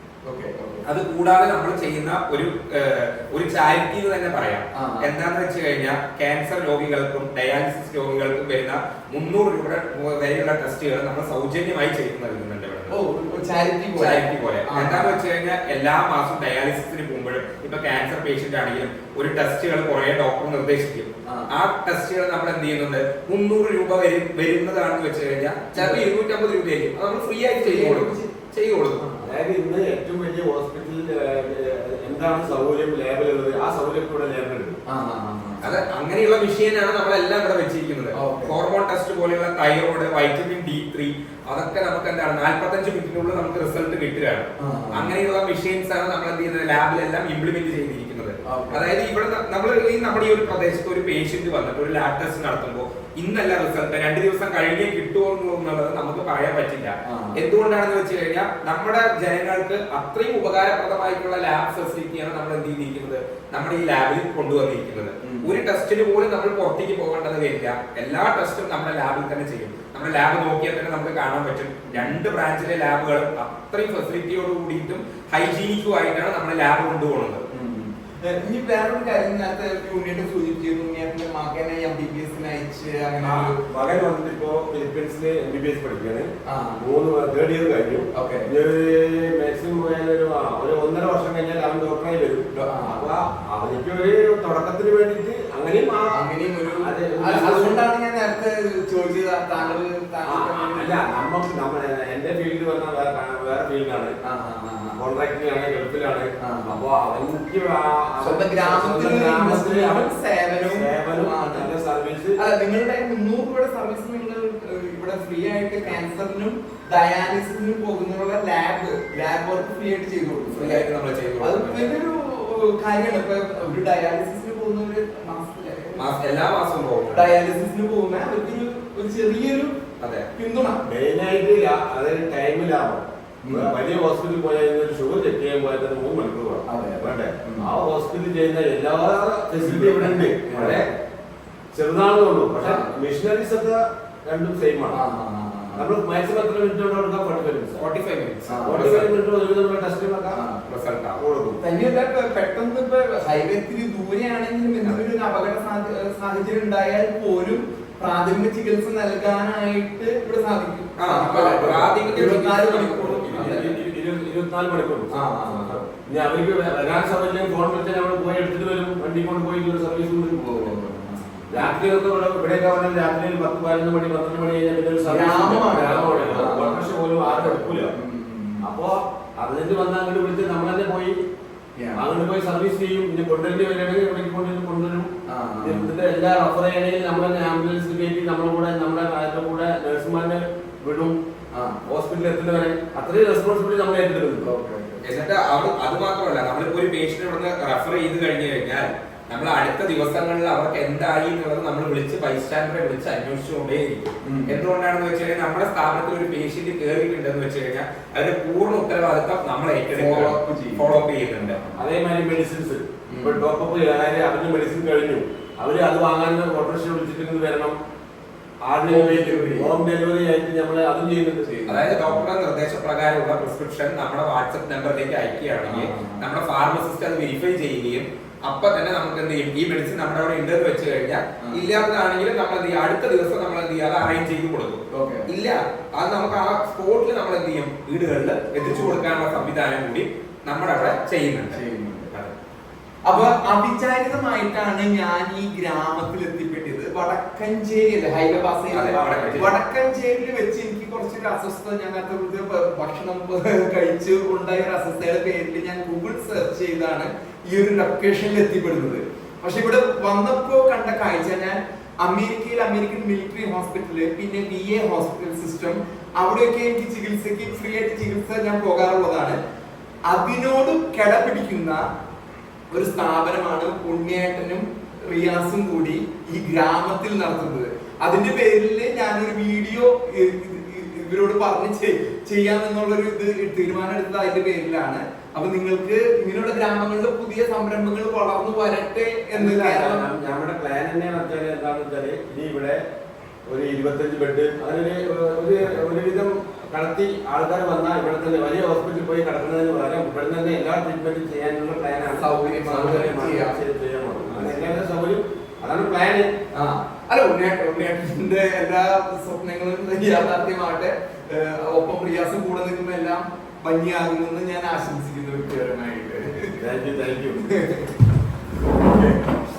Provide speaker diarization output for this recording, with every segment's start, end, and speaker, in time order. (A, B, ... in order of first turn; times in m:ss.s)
0:00.2-0:00.8 A
0:00.8-0:13.0 B
0:04.7-0:05.1 A
0:12.9-0:15.1 A
0:13.9-0:29.0 B
0:25.7-0:26.0 A
0:27.6-0:28.2 A
0:29.0-0:29.3 A
0:29.2-0:34.8 C
0:34.9-0:35.8 A
0:35.6-1:17.4 B
0:38.2-0:38.5 A
0:44.6-0:45.1 A
0:48.5-0:48.9 A
0:57.0-0:57.4 A
1:05.2-1:05.6 A
1:11.9-1:12.2 A
1:17.5-1:23.6 A
1:23.2-1:26.3 C
1:26.5-1:26.8 A
1:26.8-1:37.8 C
1:28.1-1:28.5 A
1:32.5-1:33.0 A
1:36.1-1:41.2 A
1:40.2-1:44.1 C
1:44.2-1:45.0 A
1:45.0-1:50.1 C
1:46.4-1:46.8 A
1:48.2-1:51.7 A
1:50.6-1:52.4 C
1:52.4-2:00.9 A
2:00.5-2:02.0 B
2:01.4-2:06.0 A
2:06.0-2:07.3 B
2:07.1-2:09.7 A
2:10.0-2:10.3 B
2:10.4-2:10.8 A
2:10.8-2:20.8 C
2:13.4-2:13.7 A
2:16.6-2:17.7 A
2:19.6-2:20.8 A
2:21.7-2:25.0 C
2:22.6-2:22.9 A
2:24.9-2:25.8 A
2:25.7-2:27.8 C
2:27.7-2:29.1 B
2:28.5-2:28.9 A
2:28.6-2:30.4 C
2:30.3-2:30.6 A
2:30.6-2:31.2 B
2:31.2-2:31.6 C
2:31.6-2:43.7 A
2:41.0-2:43.7 B
2:43.3-2:50.7 C
2:45.1-2:45.8 A
2:50.4-2:51.7 A
2:51.5-2:57.9 C
2:55.0-2:58.6 A
2:58.6-3:01.2 C
3:01.8-3:02.0 A
3:02.0-3:11.2 C
3:05.3-3:05.9 A
3:11.5-3:11.8 A
3:11.8-3:14.5 C
3:14.4-3:15.0 A
3:15.0-3:31.6 B
3:24.2-3:24.6 A
3:29.9-3:30.9 A
3:31.4-3:31.8 A
3:31.8-3:37.8 C
3:33.1-3:33.4 A
3:38.6-3:41.5 C
3:38.9-3:39.7 A
3:41.4-3:42.2 A
3:41.7-4:02.3 B
3:45.6-3:46.2 A
3:51.4-3:51.7 A
3:54.9-3:55.3 A
3:58.6-3:59.2 A
4:01.5-4:02.1 A
4:03.0-4:29.4 A
4:08.4-4:09.5 B
4:30.1-4:31.8 A
4:32.7-4:50.0 A
4:49.3-4:52.8 C
4:53.5-5:06.3 C
5:02.2-5:03.6 A
5:04.3-5:04.6 A
5:06.5-5:16.6 A
5:16.6-5:17.4 C
5:17.4-5:17.9 A
5:18.6-5:19.3 A